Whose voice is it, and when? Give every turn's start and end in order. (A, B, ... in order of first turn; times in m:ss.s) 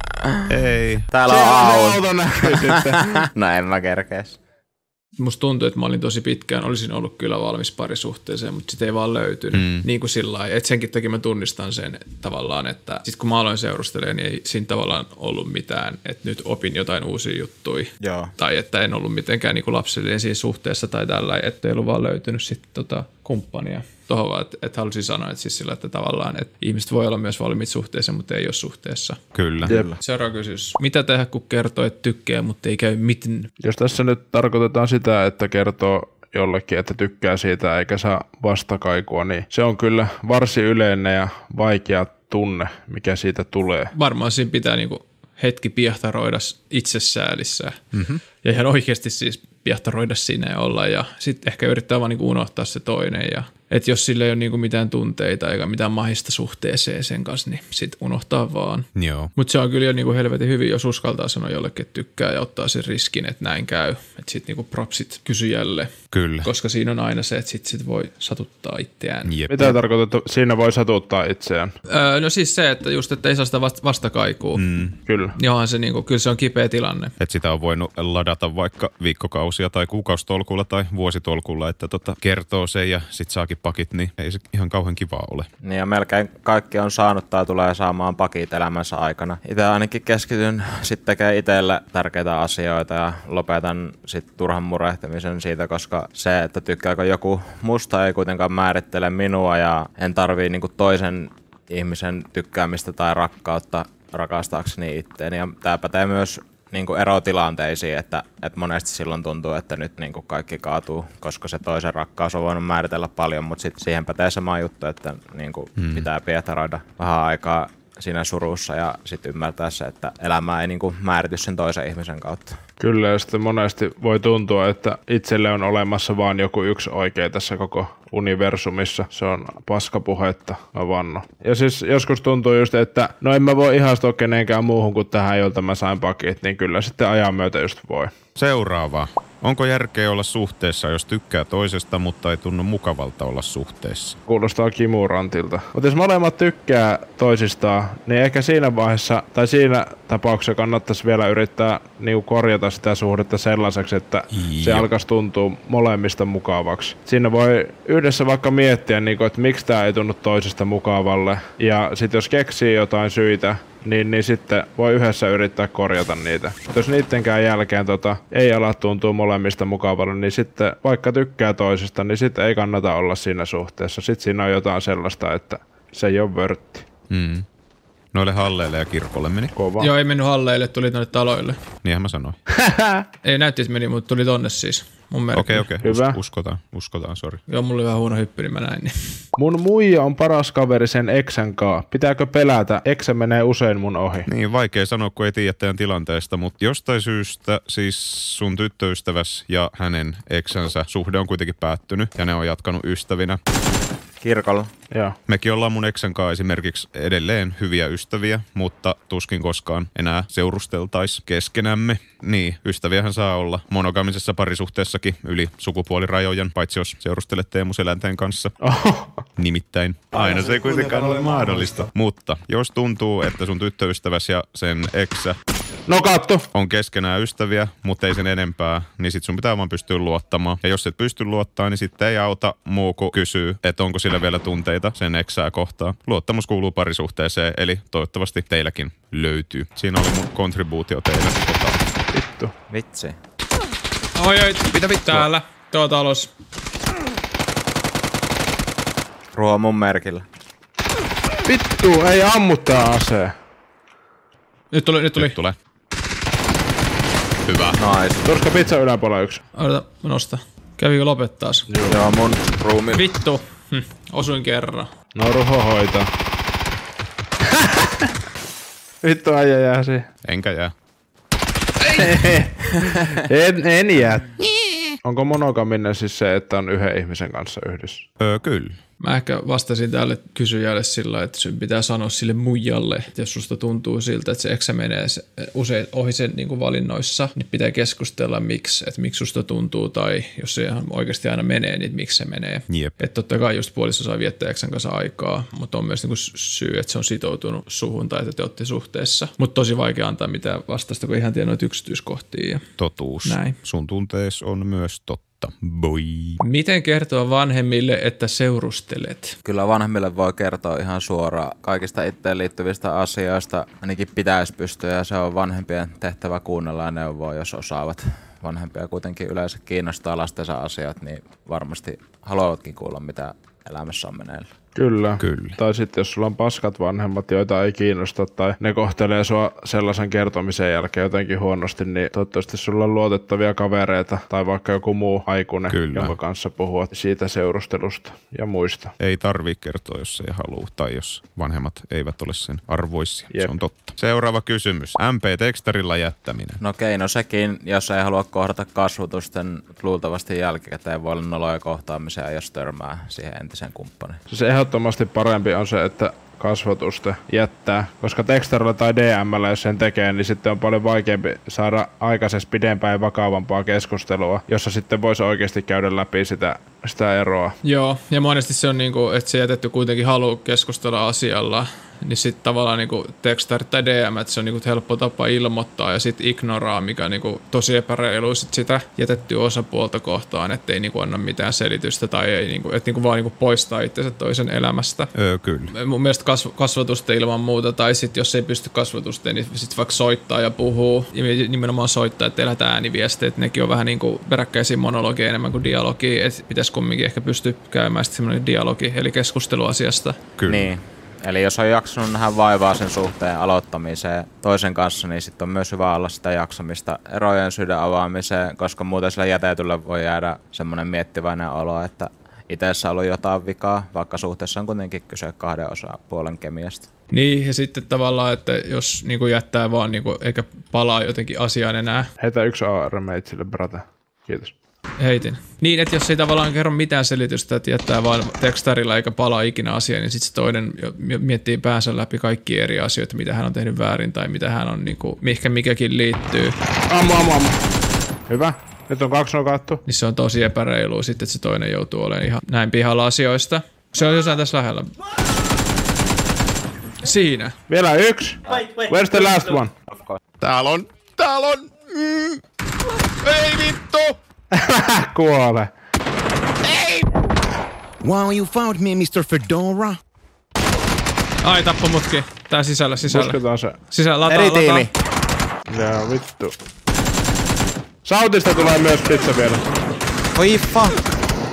0:00.2-0:00.6 A
0:00.5-0:01.1 B
0:01.1-0:04.4 A
0:01.3-0:03.2 C
0:05.2-0:29.2 D
0:09.5-0:09.8 B
0:18.0-0:18.3 A
0:29.3-0:29.8 B
0:29.6-0:30.0 A
0:30.0-0:33.5 D
0:33.6-0:43.9 C
0:43.9-0:47.8 D
0:47.9-0:48.2 B
0:48.4-1:05.9 D
0:58.9-0:59.3 B
1:06.1-1:06.5 B
1:06.4-1:09.3 D
1:09.2-1:09.8 B
1:09.5-1:11.7 C
1:11.9-1:14.6 D
1:14.6-1:15.0 B
1:15.0-1:15.3 C
1:15.4-1:17.1 D
1:17.2-1:25.5 B
1:25.6-2:02.6 A
1:55.8-1:56.0 B
2:02.8-2:18.1 C
2:18.4-2:24.2 B
2:24.3-2:56.9 C
2:34.3-2:34.9 B
2:57.1-2:57.4 B
2:58.1-2:59.5 B
2:59.5-2:59.9 C
2:59.8-3:01.6 D
3:01.8-3:02.4 B
3:02.5-3:03.0 C
3:03.2-3:05.7 D
3:05.3-3:07.4 B
3:05.8-3:06.2 C
3:07.5-3:09.2 D
3:09.4-3:14.3 C
3:14.3-3:23.4 B
3:24.2-3:24.7 A
3:24.9-3:25.2 C
3:25.3-3:38.5 B
3:38.6-3:39.2 C
3:39.4-3:45.3 B
3:40.2-3:41.8 C
3:45.9-3:46.5 C
3:46.5-4:01.8 B
4:02.1-4:02.5 C
4:02.7-4:03.2 A
4:04.1-4:06.3 D
4:04.7-4:05.3 B
4:09.3-4:10.2 A
4:11.4-4:13.3 C
4:14.7-4:15.4 D
4:15.2-4:15.5 B
4:17.4-4:17.8 B
4:17.8-4:18.2 A
4:18.2-4:19.4 C
4:19.5-4:21.7 D
4:21.7-4:22.0 C
4:21.8-4:23.0 A
4:22.9-4:24.9 D
4:25.1-4:26.1 C
4:27.4-4:28.2 C
4:29.0-4:30.1 C
4:30.2-4:30.7 B
4:31.9-4:34.4 C
4:35.0-4:38.0 C
4:38.2-4:38.8 B
4:39.0-5:02.6 D
4:52.7-4:52.9 B
5:02.8-5:06.4 B
5:03.2-5:03.6 D
5:06.4-5:09.4 D
5:09.4-5:24.5 A
5:24.7-5:38.9 C
5:25.2-5:25.6 B
5:35.7-5:36.2 B
5:39.0-5:46.6 B
5:46.6-5:54.2 A
5:54.3-6:07.5 C
6:07.6-6:25.1 D
6:25.2-6:25.7 B
6:25.7-6:40.2 D
6:40.4-6:40.7 B
6:40.5-6:56.9 A
6:57.1-7:02.1 D
7:02.2-7:04.5 C
7:05.0-7:16.6 D
7:16.9-7:17.6 C
7:18.3-7:19.8 C
7:19.8-7:24.9 D
7:27.0-7:27.5 D
7:27.7-7:29.7 C
7:30.4-7:32.4 B
7:33.2-7:34.2 B
7:34.5-7:35.7 C
7:36.6-7:37.1 B
7:38.0-7:40.0 B
7:41.4-7:43.4 D
7:43.0-7:43.8 C
7:43.9-7:44.9 D
7:44.3-7:44.9 A
7:45.7-7:46.5 C
7:48.0-7:49.6 C
7:50.3-7:51.0 A